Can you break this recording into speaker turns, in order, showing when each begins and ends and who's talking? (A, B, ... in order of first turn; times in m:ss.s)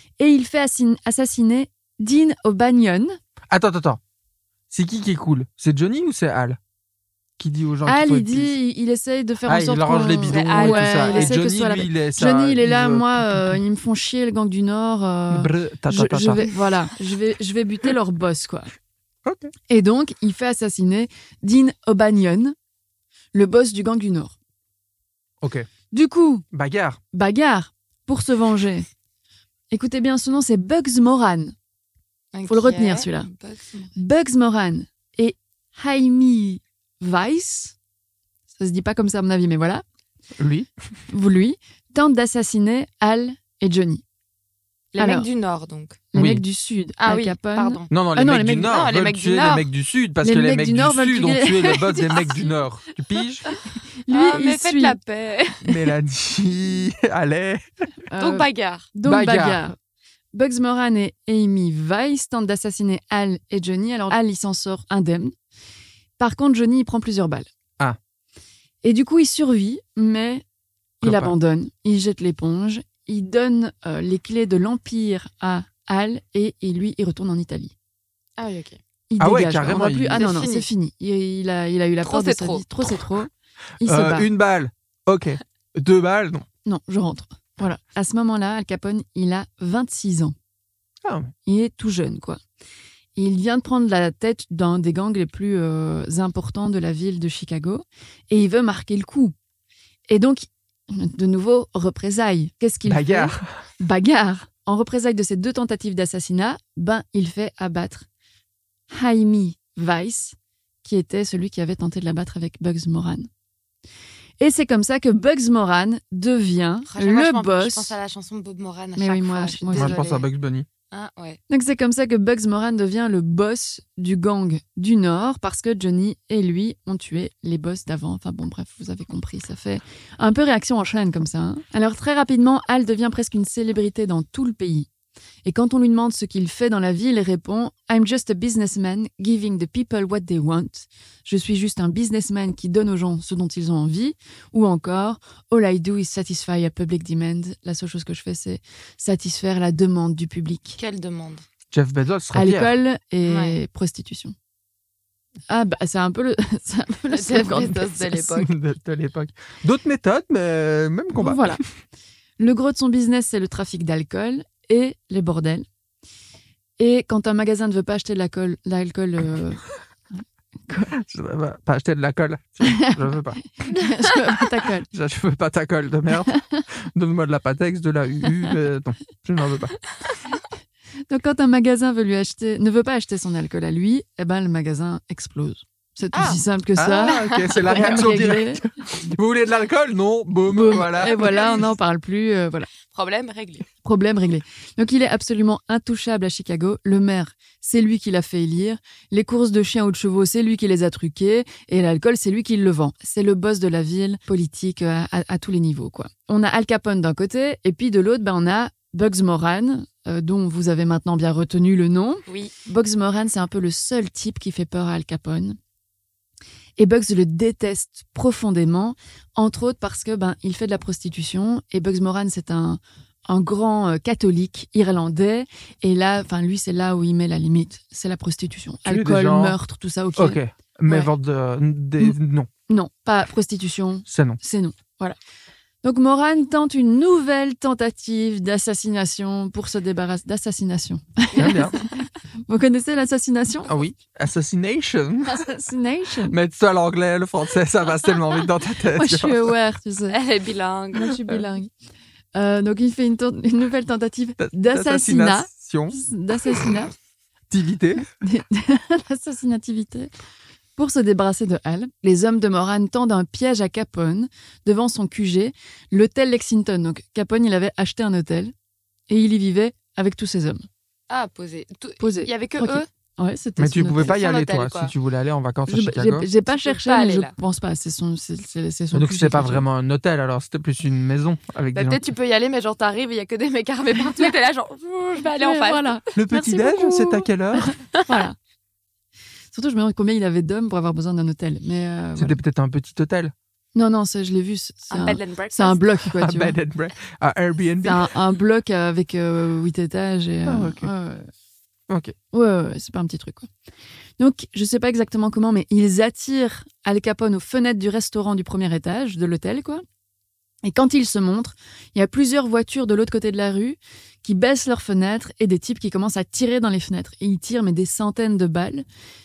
0:00.2-0:03.2 A
0:03.5-0:04.0 B
0:04.7-0:06.6 B
0:07.4-0:08.6 B
0:07.8-0:18.7 A
0:09.5-0:13.6 B
0:10.3-0:11.4 C
0:15.3-0:16.6 B
0:19.2-0:19.5 B
0:19.7-0:22.6 A
0:23.3-0:24.4 A
0:25.4-0:25.7 B
0:25.9-0:26.5 A
0:26.5-0:27.0 B
0:27.1-0:28.9 A
0:29.7-0:31.6 A
0:32.3-0:33.9 C
0:32.5-0:33.3 A
0:34.0-0:37.8 A
0:38.6-0:39.8 A
0:40.4-0:40.7 B
0:41.1-0:44.0 A
0:44.9-0:46.0 C
0:45.0-0:45.3 A
0:46.1-0:48.8 A
0:46.2-0:46.4 B
0:47.0-0:47.9 C
0:47.9-0:53.5 B
0:48.7-0:49.7 C
0:50.2-0:52.2 A
0:51.8-0:52.4 C
0:54.1-0:55.0 A
0:54.1-0:55.9 C
0:55.6-0:57.6 B
0:58.1-0:59.8 A
0:58.2-0:58.9 C
0:59.1-0:59.6 B
1:00.3-1:05.3 A
1:06.2-1:07.5 A
1:08.8-1:10.4 A
1:11.0-1:11.3 B
1:11.0-1:17.7 A
1:18.4-1:18.8 C
1:19.1-1:23.3 A
1:19.2-1:20.2 B
1:20.1-1:20.7 C
1:22.0-1:22.7 C
1:23.8-1:24.3 A
1:23.8-1:26.5 B
1:26.6-1:30.4 A
1:31.0-1:31.3 B
1:31.5-1:32.4 A
1:33.2-1:39.4 A
1:40.1-1:48.1 A
1:42.9-1:43.5 B
1:48.9-1:53.3 A
1:54.4-1:58.0 A
1:56.9-2:00.3 C
1:59.0-2:00.0 A
1:59.8-2:00.7 B
2:00.9-2:01.4 C
2:01.5-2:14.9 A
2:15.4-2:30.8 A
2:30.8-2:31.4 C
2:31.7-2:32.7 B
2:32.3-2:34.3 A
2:33.2-2:33.6 C
2:35.5-2:38.2 A
2:37.1-2:38.5 C
2:38.2-2:41.6 B
2:41.2-2:41.6 A
2:42.4-2:45.6 A
2:46.8-2:49.6 A
2:50.1-2:50.9 A
2:50.9-2:53.5 B
2:52.7-2:53.0 A
2:53.6-2:54.9 A
2:54.9-2:59.8 B
2:56.3-2:56.6 A
3:01.1-3:08.6 A
3:06.1-3:06.4 C
3:06.8-3:11.7 B
3:07.0-3:08.1 C
3:10.5-3:12.7 A
3:10.8-3:11.7 C
3:12.9-3:13.7 C
3:13.8-3:35.6 A
3:32.3-3:32.5 C
3:36.8-3:51.1 A
3:48.9-3:49.6 B
3:50.2-3:52.5 B
3:52.7-3:55.2 A
3:54.1-3:54.4 B
3:55.8-4:03.7 A
4:01.4-4:01.8 B
4:03.7-4:05.5 B
4:05.3-4:06.4 A
4:06.3-4:09.5 B
4:08.9-4:10.2 A
4:10.1-4:11.2 C
4:11.0-4:11.7 A
4:12.4-4:16.9 A
4:14.4-4:16.0 B
4:17.5-4:18.1 B
4:18.0-4:20.1 A
4:20.8-4:28.5 A
4:29.1-4:30.7 A
4:31.1-4:32.9 C
4:32.0-4:34.2 A
4:33.6-4:36.3 B
4:34.0-4:34.9 C
4:35.7-4:39.6 A
4:36.5-4:37.3 C
4:38.9-4:42.0 B
4:41.7-4:46.0 C
4:45.3-4:48.4 A
4:46.2-4:47.8 B
4:47.9-4:48.2 C
4:49.5-4:52.4 A
4:52.2-4:53.3 B
4:53.8-4:56.6 A
4:54.9-4:55.9 C
4:56.1-4:58.1 B
4:57.8-5:01.3 A
5:00.5-5:00.9 B
5:01.9-5:02.2 B
5:02.3-5:03.5 A
5:04.2-5:09.8 A
5:10.6-5:18.8 A